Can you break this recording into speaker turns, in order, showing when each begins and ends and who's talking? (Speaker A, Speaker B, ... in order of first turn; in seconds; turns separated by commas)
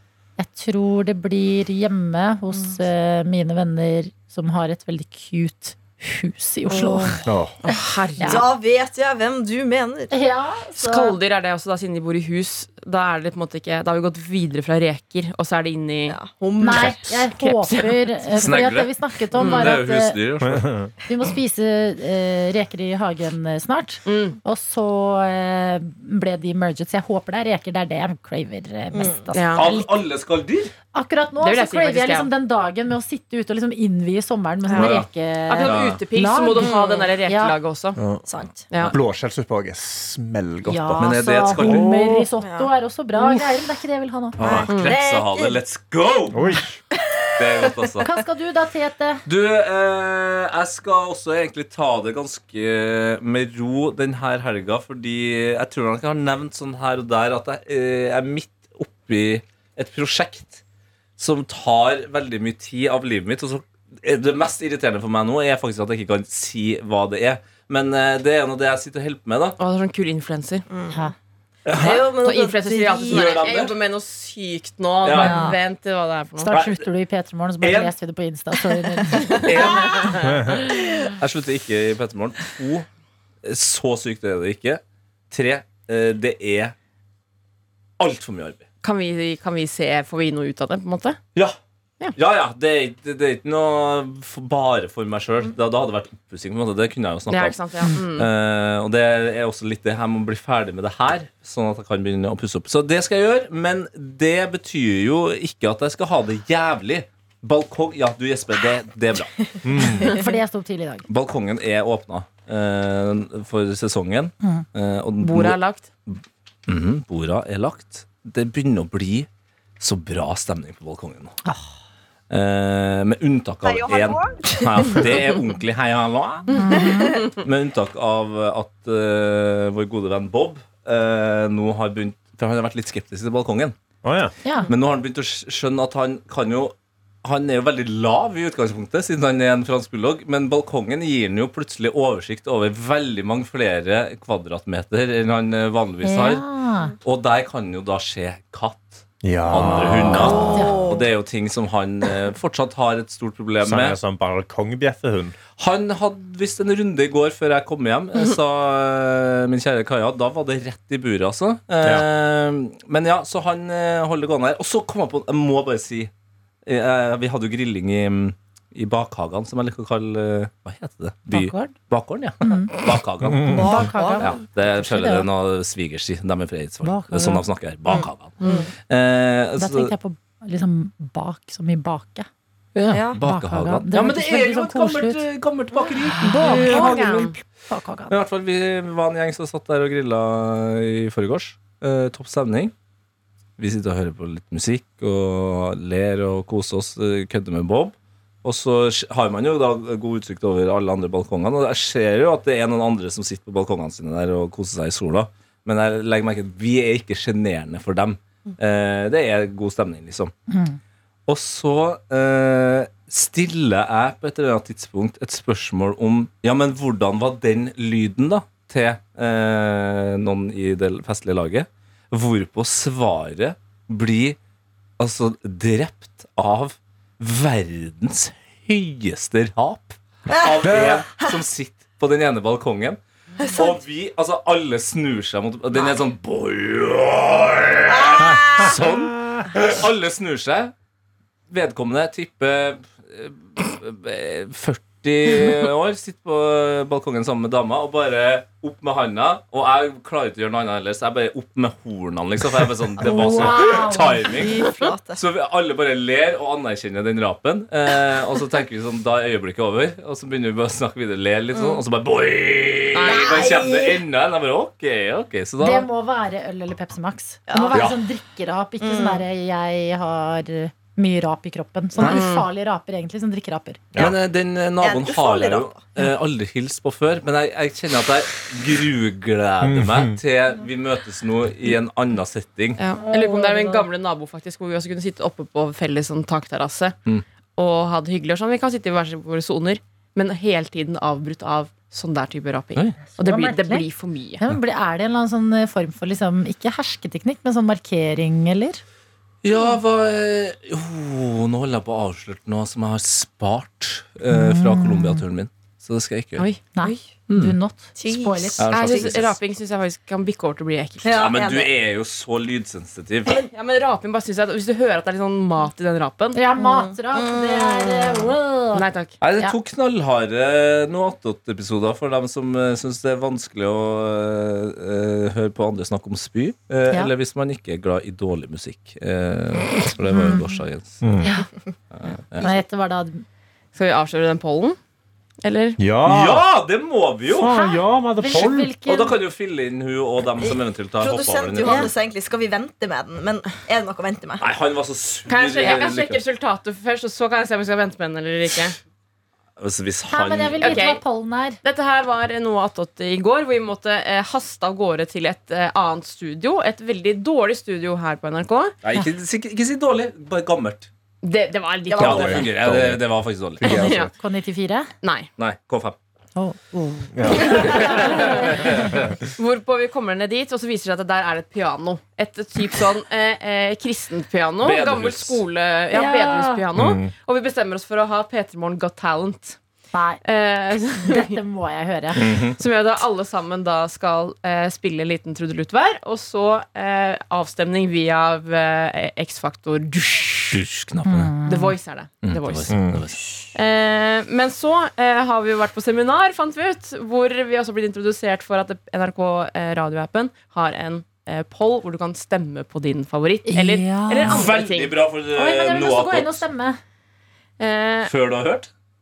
Speaker A: 0.4-7.2, Speaker B: 6.7-7.1, Speaker C: 7.2-7.5, Speaker D: 7.6-8.5, Speaker A: 8.2-8.5, Speaker B: 8.2-10.1, Speaker A: 10.1-11.2, Speaker D: 10.8-16.2, Speaker B: 16.1-17.2, Speaker A: 16.6-20.2, Speaker D: 16.7-18.5, Speaker E: 18.4-20.7, Speaker D: 19.3-19.8, Speaker C: 20.4-20.9, Speaker A: 21.1-29.9, Speaker D: 24.0-24.4, Speaker B: 28.9-29.3, Speaker D: 29.3-29.7, Speaker E: 29.5-30.7, Speaker A: 30.9-37.6, Speaker D: 31.4-32.3, Speaker B: 34.7-35.0, Speaker E: 34.7-35.1, Speaker D: 35.5-38.0, Speaker E: 35.6-36.0, Speaker B: 36.6-37.1, Speaker C: 38.0-38.2, Speaker B: 38.2-38.6, Speaker D: 38.7-39.0, Speaker C: 38.8-42.2, Speaker A: 40.7-44.4, Speaker E: 41.0-42.0, Speaker B: 42.4-42.7, Speaker E: 44.4-46.5, Speaker B: 44.4-45.6, Speaker D: 44.7-45.0, Speaker C: 46.3-46.8, Speaker B: 46.9-47.7, Speaker E: 47.4-48.1, Speaker A: 48.0-49.2, Speaker E: 49.2-60.6, Speaker E: 61.2-69.6, Speaker D: 69.6-70.6, Speaker B: 70.7-71.0, Speaker E: 71.7-72.1, Speaker B: 71.7-73.7, Speaker D: 71.8-76.5, Speaker E: 73.1-73.7, Speaker E: 75.0-75.4, Speaker B: 75.1-75.5, Speaker A: 75.2-75.5, Speaker A: 76.4-79.3, Speaker E: 76.5-76.8, Speaker E: 77.6-77.9, Speaker D: 79.3-80.5, Speaker E: 79.4-80.3, Speaker B: 79.6-79.9, Speaker E: 81.2-82.8, Speaker E: 83.4-86.7, Speaker E: 88.0-88.6, Speaker D: 88.8-91.2, Speaker E: 92.2-109.8, Speaker D: 97.3-98.3, Speaker C: 109.6-110.1, Speaker A: 110.0-111.0, Speaker E: 111.1-119.3, Speaker D: 115.2-115.8, Speaker E: 119.8-121.3, Speaker E: 122.3-126.5, Speaker B: 123.6-125.1, Speaker D: 126.5-126.8, Speaker A: 126.5-127.2, Speaker B: 126.8-127.2, Speaker E: 127.2-133.7, Speaker C: 134.0-134.3, Speaker A: 134.4-134.7, Speaker E: 134.7-136.7, Speaker E: 137.2-146.4, Speaker A: 146.0-146.9, Speaker E: 147.0-154.0, Speaker C: 149.2-150.6, Speaker B: 150.1-151.1, Speaker A: 150.5-150.9, Speaker C: 153.6-155.4, Speaker E: 155.6-166.1, Speaker E: 166.6-179.9, Speaker A: 171.3-171.7, Speaker A: 172.4-172.8, Speaker C: 173.2-173.7, Speaker A: 173.4-175.3, Speaker B: 173.5-174.3, Speaker A: 176.8-177.4, Speaker B: 177.9-178.7, Speaker D: 178.4-178.7, Speaker A: 179.6-182.3, Speaker E: 182.7-187.4, Speaker B: 182.9-183.2, Speaker A: 183.2-185.2, Speaker A: 186.2-187.0, Speaker D: 186.4-187.4, Speaker A: 187.7-188.1, Speaker E: 188.1-192.7, Speaker E: 193.6-210.3, Speaker A: 210.5-210.8, Speaker E: 211.3-224.4, Speaker E: 225.0-233.0, Speaker B: 230.4-231.3, Speaker B: 233.4-233.7, Speaker E: 233.5-240.7, Speaker B: 237.9-238.8, Speaker C: 238.9-239.4, Speaker E: 241.5-265.9, Speaker A: 253.0-254.3, Speaker B: 253.0-255.2, Speaker B: 261.5-261.8, Speaker D: 262.9-263.5, Speaker B: 263.0-264.0, Speaker A: 265.6-273.9, Speaker B: 267.5-267.8, Speaker B: 268.8-269.2, Speaker D: 272.0-272.5, Speaker E: 273.9-282.8, Speaker B: 274.8-275.8, Speaker C: 279.6-280.2, Speaker D: 282.8-286.9, Speaker A: 282.9-283.9, Speaker D: 287.6-294.4, Speaker E: 292.7-293.0, Speaker A: 293.1-293.9, Speaker A: 294.4-298.8, Speaker E: 299.4-306.4, Speaker A: 304.3-305.2, Speaker D: 306.4-307.0, Speaker A: 306.8-308.7, Speaker E: 307.3-307.5, Speaker B: 307.9-309.1, Speaker E: 308.6-309.4, Speaker D: 308.7-311.3, Speaker B: 311.0-311.7, Speaker E: 311.1-313.4, Speaker D: 313.3-316.4, Speaker A: 316.3-318.9, Speaker B: 316.6-318.3, Speaker D: 318.7-319.1, Speaker E: 319.2-331.0, Speaker A: 330.1-330.6, Speaker C: 331.0-331.3, Speaker E: 331.9-332.5, Speaker A: 332.4-333.2, Speaker D: 333.7-334.8, Speaker D: 335.4-335.8, Speaker C: 335.8-336.4, Speaker E: 336.1-337.5, Speaker C: 337.3-338.7, Speaker A: 337.4-339.1, Speaker E: 338.3-341.9, Speaker B: 340.4-344.4, Speaker A: 341.6-341.9, Speaker E: 344.4-346.2, Speaker D: 345.3-348.8, Speaker E: 349.6-350.8, Speaker A: 350.1-351.6, Speaker D: 350.6-351.0, Speaker D: 351.6-358.8, Speaker E: 358.8-360.9, Speaker D: 361.2-362.5, Speaker B: 361.9-362.3, Speaker C: 362.0-363.1, Speaker E: 362.0-363.9, Speaker C: 363.6-364.1, Speaker D: 363.6-364.1, Speaker A: 363.7-364.9, Speaker D: 365.0-365.3, Speaker E: 365.4-366.0, Speaker A: 366.4-368.9, Speaker C: 367.1-368.1, Speaker E: 367.5-369.1, Speaker D: 367.5-368.5, Speaker D: 369.4-379.6, Speaker E: 374.6-375.4, Speaker A: 375.9-376.6, Speaker C: 376.7-377.1, Speaker A: 379.9-380.2, Speaker D: 380.2-381.4, Speaker A: 380.9-382.3, Speaker E: 382.1-382.6, Speaker D: 382.2-390.6, Speaker E: 390.5-391.3, Speaker A: 391.0-391.8, Speaker D: 391.4-392.9, Speaker E: 392.2-393.2, Speaker C: 392.7-393.0, Speaker D: 393.5-405.0, Speaker A: 403.5-404.4, Speaker E: 404.2-406.4, Speaker A: 405.3-406.8, Speaker D: 407.6-408.1, Speaker E: 408.0-408.7